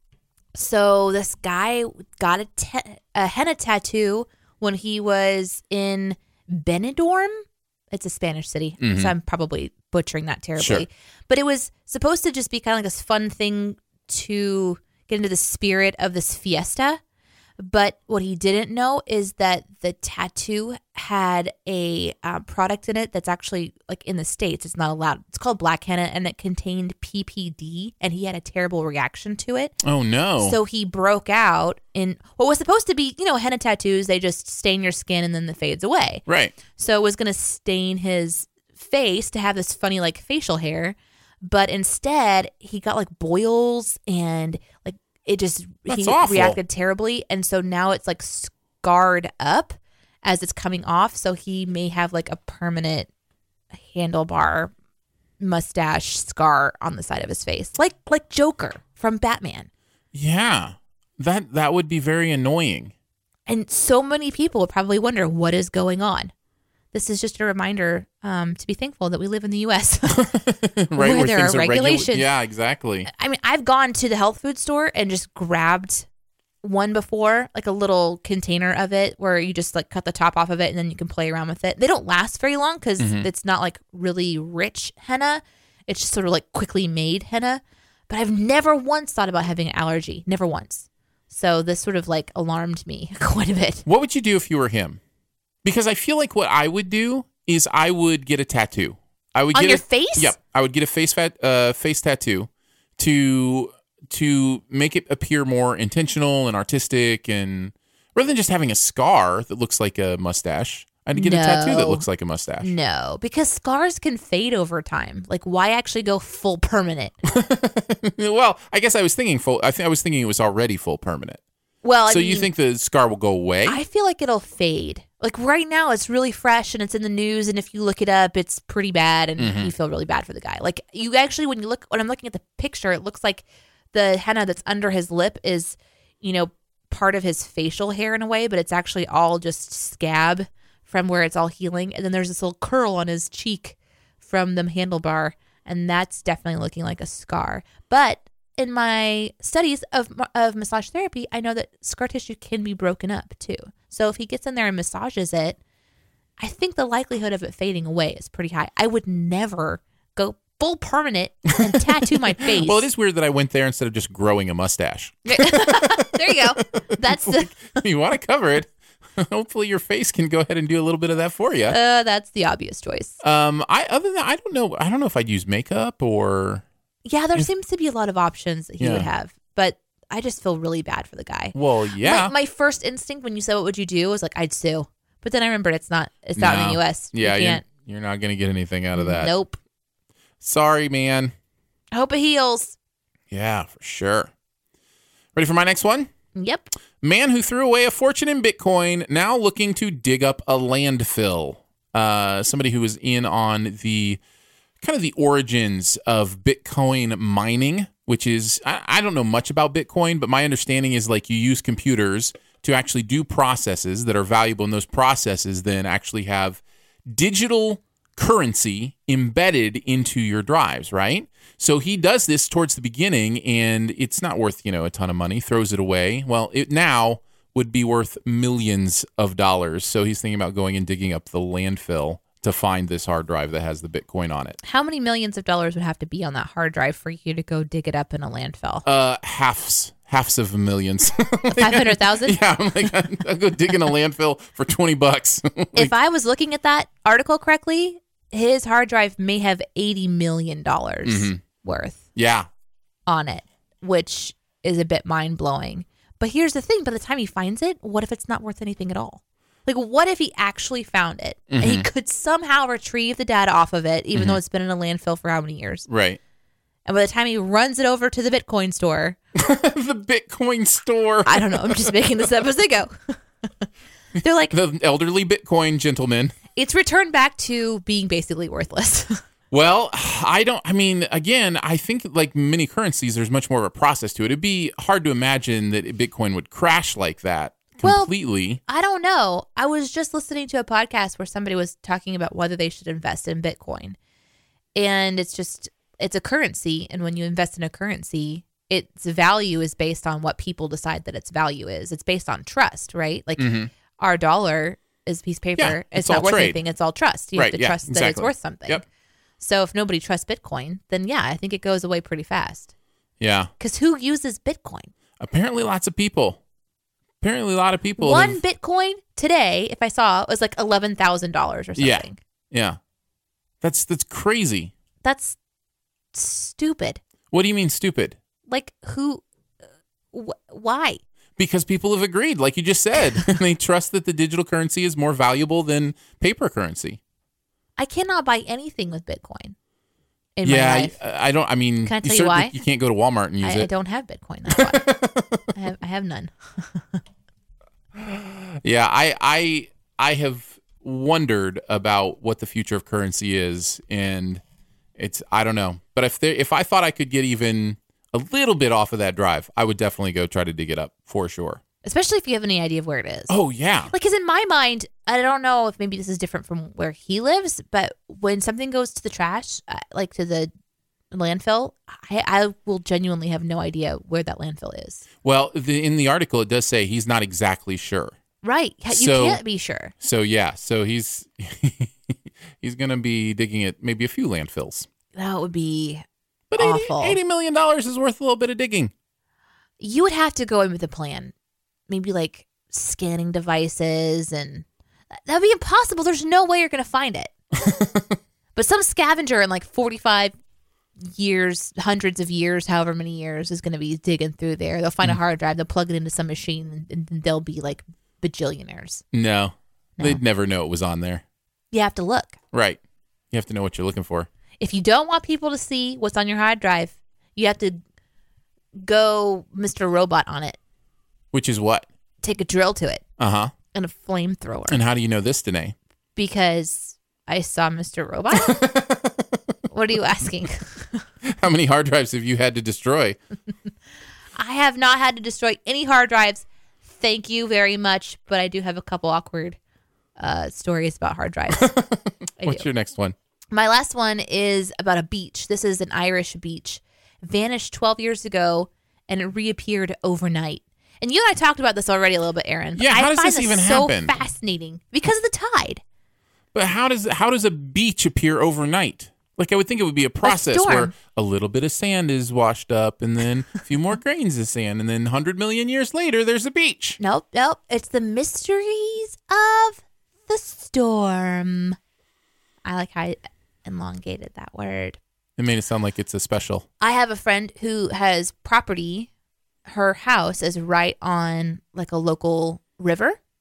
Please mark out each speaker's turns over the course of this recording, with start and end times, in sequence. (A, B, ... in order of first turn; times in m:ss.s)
0:00.6-0:17.0 A
0:08.8-0:09.1 B
0:10.6-0:10.9 B
0:17.6-0:29.8 A
0:29.8-0:30.6 B
0:30.4-0:53.1 A
0:36.3-0:36.6 B
0:45.9-0:46.6 B
0:53.7-0:54.7 A
0:55.4-0:59.7 A
1:00.1-1:02.9 B
1:03.5-1:06.3 A
1:06.9-1:10.2 A
1:10.2-1:13.1 B
1:11.0-1:12.3 A
1:13.1-1:16.1 A
1:16.6-1:33.8 A
1:23.0-1:23.3 B
1:33.9-1:35.0 B
1:35.6-1:52.7 B
1:39.5-1:40.4 A
1:51.2-1:52.1 A
1:52.6-1:57.2 A
1:57.3-2:01.4 B
2:01.8-2:02.5 A
2:02.1-2:03.8 B
2:03.6-2:35.6 A
2:09.4-2:09.7 B
2:36.4-2:42.9 A
2:41.6-2:51.8 B
2:45.3-2:47.7 A
2:51.7-2:53.2 A
2:53.2-2:56.6 B
2:57.0-3:07.6 A
2:58.8-2:59.1 B
3:01.6-3:02.3 B
3:06.4-3:09.3 B
3:08.9-3:09.6 A
3:10.4-3:11.3 B
3:11.9-3:12.8 A
3:13.3-3:14.3 B
3:15.4-3:16.1 B
3:16.4-3:16.7 A
3:17.0-3:24.2 B
3:24.8-3:54.6 B
3:54.6-3:58.8 A
3:58.8-4:05.9 B
4:01.5-4:02.4 A
4:05.8-4:12.1 A
4:11.0-4:11.4 B
4:12.2-4:12.5 B
4:13.1-4:25.9 A
4:21.5-4:21.9 B
4:24.1-4:24.4 B
4:25.9-4:26.2 B
4:26.9-4:29.2 A
4:29.4-4:32.0 B
4:31.2-4:33.2 A
4:34.2-4:34.6 A
4:34.5-4:36.4 B
4:36.6-4:39.2 A
4:39.5-4:48.6 B
4:47.8-4:48.1 A
4:48.7-4:54.0 A
4:54.8-5:08.8 A
5:03.4-5:03.7 B
5:05.6-5:06.6 B
5:07.4-5:08.8 B
5:09.4-5:12.7 A
5:13.2-5:13.5 B
5:13.6-5:14.9 A
5:15.2-5:16.4 B
5:17.2-5:18.4 B
5:18.0-5:22.2 A
5:21.8-5:22.8 B
5:23.6-5:24.7 B
5:25.0-5:25.4 A
5:26.1-5:27.0 A
5:27.3-5:28.2 B
5:28.5-5:29.2 A
5:30.1-5:31.0 A
5:31.4-5:37.0 B
5:37.8-5:39.6 A
5:40.4-5:41.0 A
5:40.4-5:43.7 B
5:41.8-5:42.6 A
5:43.4-5:45.0 A
5:44.5-5:45.5 B
5:45.5-5:47.0 A
5:48.0-5:54.4 B
5:55.0-6:01.6 B
6:01.8-6:03.4 A
6:03.3-6:03.9 B
6:03.9-6:10.5 A
6:11.1-6:15.1 A
6:15.2-6:18.2 B
6:18.4-6:19.9 A
6:18.9-6:19.4 B
6:20.0-6:24.9 B
6:25.2-6:26.0 A
6:26.5-6:28.9 B
6:26.6-6:27.2 A
6:29.8-6:31.3 A
6:31.9-6:34.6 A
6:35.2-6:37.4 A
6:37.6-6:38.1 B
6:38.6-6:40.3 A
6:41.0-6:49.0 A
6:49.1-6:51.2 B
6:51.7-6:52.4 A
6:52.5-6:52.8 B
6:53.3-6:54.3 B
6:54.6-6:57.8 A
6:58.8-7:00.6 A
7:01.3-7:01.9 B
7:02.2-7:03.0 A
7:03.2-7:03.5 B
7:03.7-7:04.8 A
7:04.7-7:05.8 B
7:06.2-7:08.8 A
7:08.3-7:09.6 B
7:09.7-7:11.0 A
7:11.2-7:13.2 B
7:14.4-7:19.6 A
7:20.2-7:21.8 A
7:21.6-7:23.2 B
7:22.4-7:22.7 A
7:23.5-7:35.8 A
7:32.8-7:34.2 B
7:36.5-7:47.0 B
7:40.2-7:40.9 A
7:47.0-7:51.8 A
7:52.6-7:55.0 A
7:55.4-7:56.7 B
7:56.8-7:59.1 A
7:59.7-8:03.2 A